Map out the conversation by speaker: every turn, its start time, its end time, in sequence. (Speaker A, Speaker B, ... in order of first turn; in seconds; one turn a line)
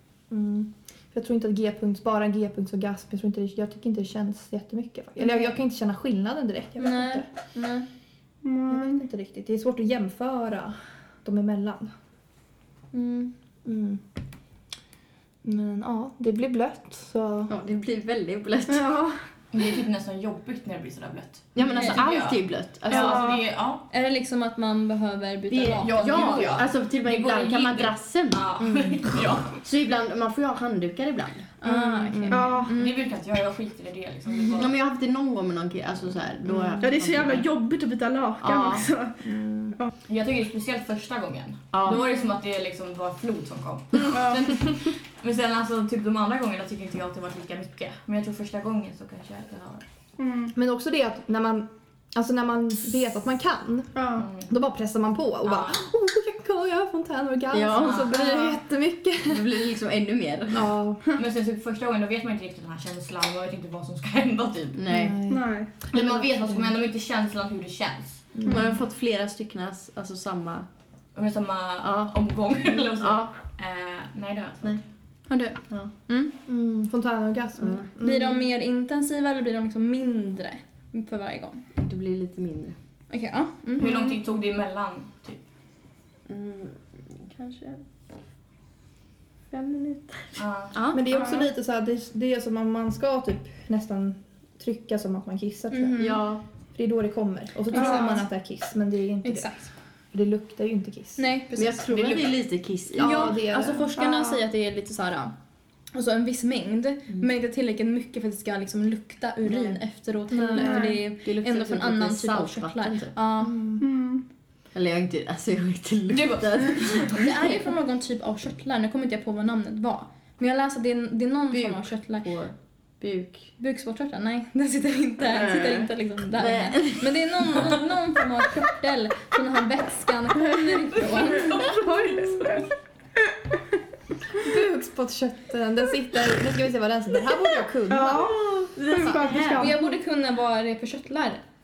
Speaker A: 0.3-7.3
Speaker B: 6.8-7.9
Speaker C: 8.4-9.0
Speaker A: 8.7-11.9
Speaker B: 12.9-13.3
Speaker A: 13.7-14.0
Speaker A: 15.4-17.5
Speaker D: 17.5-18.9
Speaker C: 18.7-19.1
Speaker E: 19.5-23.9
Speaker D: 21.6-23.4
Speaker C: 22.9-23.4
Speaker B: 23.9-26.5
Speaker D: 25.5-28.4
Speaker E: 25.7-29.6
Speaker A: 28.6-29.0
Speaker D: 29.6-31.5
Speaker B: 31.6-33.0
Speaker A: 31.6-32.6
Speaker C: 32.3-32.7
Speaker E: 32.7-34.7
Speaker D: 34.6-37.5
Speaker A: 36.5-36.8
Speaker C: 36.8-39.9
Speaker D: 38.4-38.9
Speaker A: 39.2-39.8
Speaker E: 40.1-49.9
Speaker D: 41.7-42.0
Speaker C: 44.0-44.6
Speaker C: 50.2-50.5
Speaker A: 50.5-59.7
Speaker C: 54.0-54.3
Speaker E: 54.2-54.5
Speaker E: 55.5-55.8
Speaker D: 57.5-58.5
Speaker E: 57.8-58.3
Speaker D: 59.2-60.7
Speaker A: 60.5-61.1
Speaker E: 61.1-64.8
Speaker D: 64.7-65.2
Speaker A: 64.9-66.3
Speaker C: 65.3-65.8
Speaker E: 65.9-68.3
Speaker A: 68.3-68.8
Speaker D: 68.5-70.7
Speaker E: 71.2-74.8
Speaker D: 71.8-72.1
Speaker D: 72.7-73.3
Speaker B: 75.3-76.3
Speaker A: 76.5-78.4
Speaker D: 77.6-77.9
Speaker B: 78.0-81.6
Speaker D: 81.8-82.8
Speaker B: 83.1-84.0
Speaker E: 83.8-85.4
Speaker D: 86.3-87.6
Speaker C: 89.5-90.0
Speaker E: 90.3-90.7
Speaker A: 90.9-96.2
Speaker C: 91.2-91.4
Speaker B: 95.7-96.2
Speaker D: 96.0-96.4
Speaker A: 96.7-101.2
Speaker B: 97.7-98.2
Speaker B: 99.2-99.7
Speaker B: 101.2-102.3
Speaker D: 101.5-103.4
Speaker E: 101.9-102.3
Speaker A: 102.9-103.9
Speaker B: 103.0-105.3
Speaker C: 104.0-104.4
Speaker B: 105.9-113.6
Speaker A: 110.3-110.9
Speaker C: 110.6-111.0
Speaker D: 111.1-113.1
Speaker A: 113.4-113.8
Speaker C: 113.8-114.2
Speaker D: 114.7-117.4
Speaker E: 116.1-117.4
Speaker B: 117.1-122.3
Speaker D: 121.5-123.5
Speaker B: 123.6-131.6
Speaker D: 125.2-127.8
Speaker C: 131.2-132.7
Speaker C: 133.3-133.6
Speaker A: 134.4-138.3
Speaker C: 137.9-139.8
Speaker D: 138.1-139.7
Speaker A: 138.9-139.3
Speaker B: 139.5-141.4